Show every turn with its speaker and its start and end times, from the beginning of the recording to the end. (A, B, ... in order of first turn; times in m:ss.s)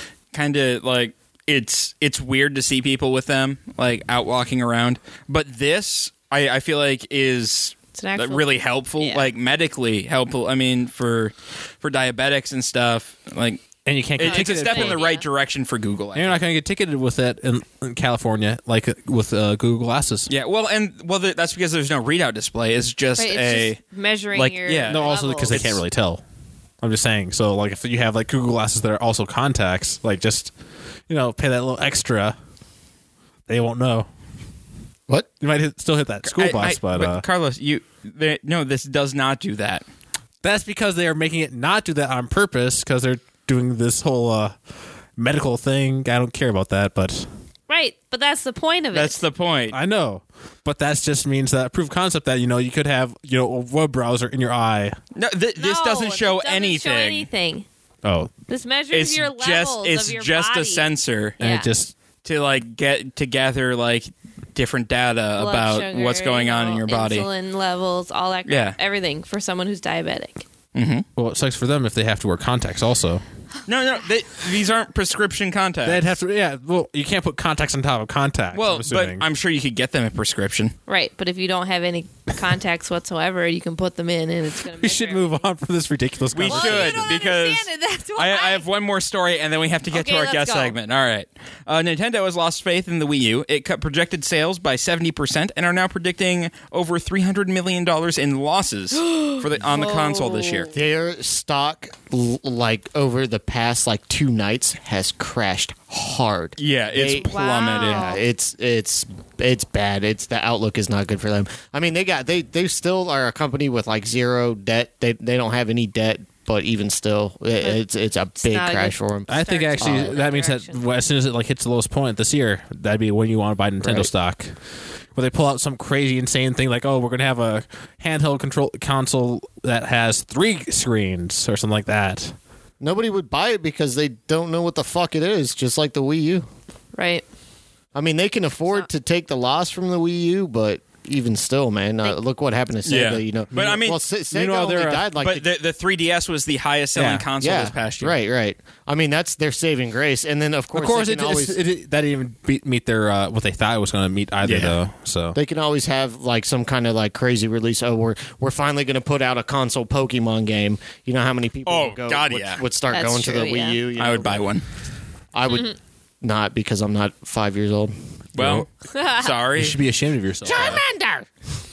0:00.3-0:13.6 A
0:07.9-0:09.3 B
0:13.8-0:15.0 C
0:14.2-0:16.4 A
0:14.2-0:15.3 B
0:16.2-0:20.3 C
0:20.3-0:23.8 A
0:23.2-0:25.6 B
0:24.3-0:25.8 A
0:24.8-0:26.2 C
0:26.8-0:30.5 C
0:31.1-0:32.4 C
0:33.5-0:34.1 C
0:35.4-0:37.2 C
0:36.2-0:39.8 A
0:40.4-0:44.6 C
0:45.2-0:47.3 C
0:47.7-0:49.2 B
0:48.9-0:49.8 A
0:49.7-0:55.0 C
0:55.2-0:57.3 A
0:55.6-0:57.7 B
0:58.0-0:58.3 C
0:58.5-1:00.8 B
0:58.9-1:01.4 A
1:01.4-1:01.7 B
1:01.4-1:01.9 C
1:02.2-1:07.3 A
1:05.4-1:10.4 B
1:08.5-1:08.8 A
1:10.7-1:11.1 A
1:11.2-1:13.2 C
1:13.7-1:16.2 A
1:15.8-1:19.2 C
1:18.5-1:20.8 A
1:20.9-1:25.4 B
1:24.8-1:27.2 C
1:26.3-1:40.7 A
1:26.5-1:28.7 B
1:29.9-1:30.8 B
1:39.0-1:40.7 B
1:40.7-2:00.2 D
1:46.6-1:48.2 A
1:47.2-1:48.2 B
1:58.4-2:00.8 B
1:59.3-2:04.6 C
2:03.8-2:04.1 D
2:05.1-2:12.4 C
2:12.8-2:16.5 D
2:16.9-2:17.2 B
2:17.9-2:25.5 D
2:22.8-2:24.0 A
2:24.3-2:25.1 C
2:25.2-2:28.2 A
2:27.0-2:27.3 C
2:27.4-2:31.6 D
2:30.7-2:35.4 C
2:34.4-2:34.8 A
2:35.4-2:44.5 D
2:41.7-2:42.6 A
2:42.9-2:43.8 B
2:44.0-2:44.6 A
2:45.3-2:47.9 D
2:48.3-2:49.8 A
2:48.4-2:48.7 C
2:48.9-2:49.3 B
2:49.6-2:50.8 C
2:50.4-2:51.3 D
2:50.5-2:50.8 B